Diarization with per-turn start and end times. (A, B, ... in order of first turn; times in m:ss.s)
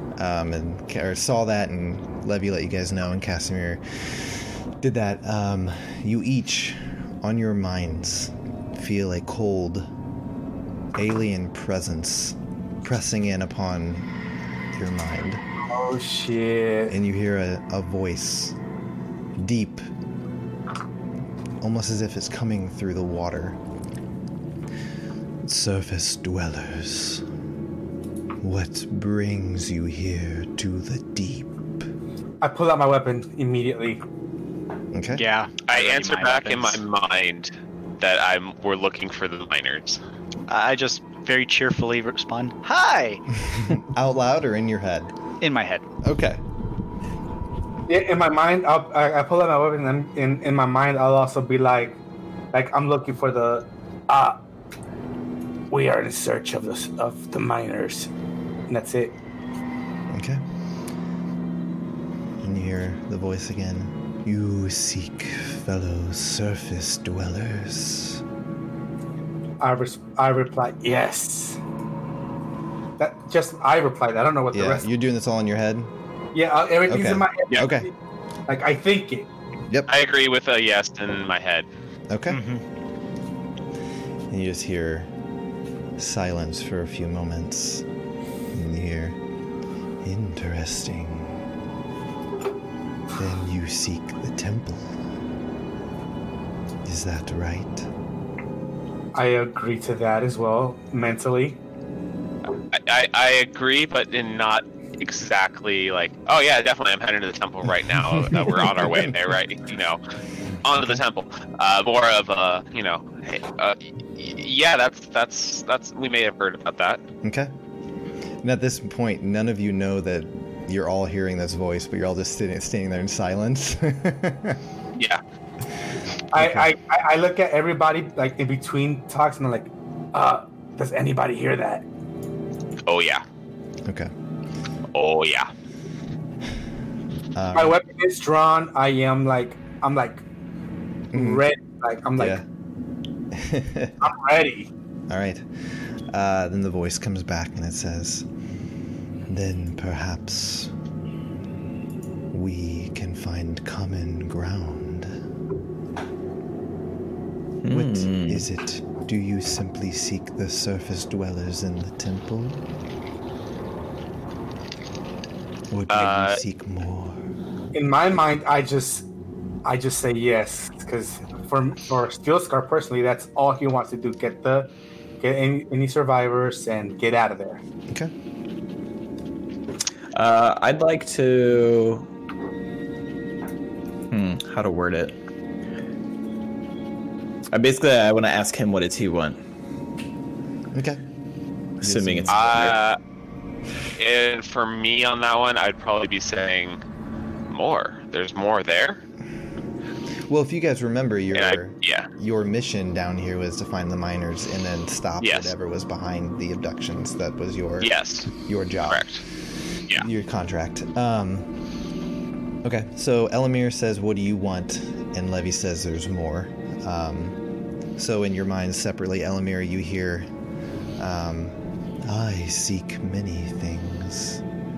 0:00.2-0:09.9 A
0:10.9-0:14.1 A
0:14.7-0:15.4 A
0:15.7-0:16.9 B
0:16.9-0:18.6 A
0:19.4-0:19.8 A
0:21.6-0:23.6 A
0:25.4-0:27.2 A
0:28.4-0:31.9 A
0:32.4-0:34.0 B
0:34.9-0:35.2 A
0:35.1-0:36.8 C
0:35.7-0:40.0 D
0:40.5-0:43.2 C
0:43.5-0:45.1 A
0:45.4-0:45.8 C
0:46.0-0:46.4 A
0:47.9-0:52.0 B
0:52.5-0:54.4 B
0:55.7-0:58.1 B
0:58.7-0:59.2 B
1:00.1-1:00.4 A
1:02.4-1:08.2 A
1:09.6-1:11.6 B
1:13.0-1:14.9 B
1:14.5-1:15.9 A
1:16.3-1:17.9 B
1:16.8-1:17.9 A
1:18.5-1:19.3 B
1:19.9-1:21.7 D
1:22.1-1:22.4 A
1:22.3-1:22.6 C
1:24.3-1:25.1 A
1:26.0-1:27.8 A
1:28.5-1:29.2 A
1:30.0-1:31.4 A
1:33.1-1:34.9 A
1:36.8-1:37.9 A
1:39.1-1:41.6 B
1:42.7-1:50.0 D
1:48.1-1:48.9 A
1:50.6-1:57.0 D
1:57.2-1:57.5 A
1:58.4-2:04.6 A
2:05.0-2:05.2 D
2:06.3-2:11.8 B
2:06.3-2:06.7 A
2:12.9-2:13.2 D
2:13.8-2:14.1 A
2:14.9-2:15.5 D
2:17.3-2:17.8 A
2:17.5-2:20.2 B
2:21.1-2:21.4 A
2:21.1-2:22.4 B
2:22.2-2:22.4 A
2:23.3-2:24.1 A
2:24.0-2:24.7 B
2:25.1-2:25.4 A
2:26.1-2:28.2 A
2:29.3-2:30.7 A
2:32.3-2:35.2 A
2:37.6-2:38.4 E
2:37.7-2:42.6 A
2:45.7-2:47.2 A
2:45.9-2:46.4 D
2:47.7-2:49.1 B
2:49.6-2:57.6 B
3:00.1-3:02.1 E
3:04.1-3:05.2 E
3:07.5-3:09.4 E
3:10.7-3:11.0 A
3:11.8-3:12.4 A
3:11.8-3:12.8 E
3:12.3-3:13.0 D
3:14.0-3:16.8 D
3:17.5-3:19.0 D
3:20.3-3:27.9 A
3:21.3-3:22.1 D
3:25.2-3:25.5 D
3:27.8-3:28.3 D
3:28.4-3:29.2 A
3:28.9-3:29.2 D
3:29.9-3:31.5 A
3:32.6-3:37.4 A
3:38.0-3:40.3 A
3:41.0-3:44.4 A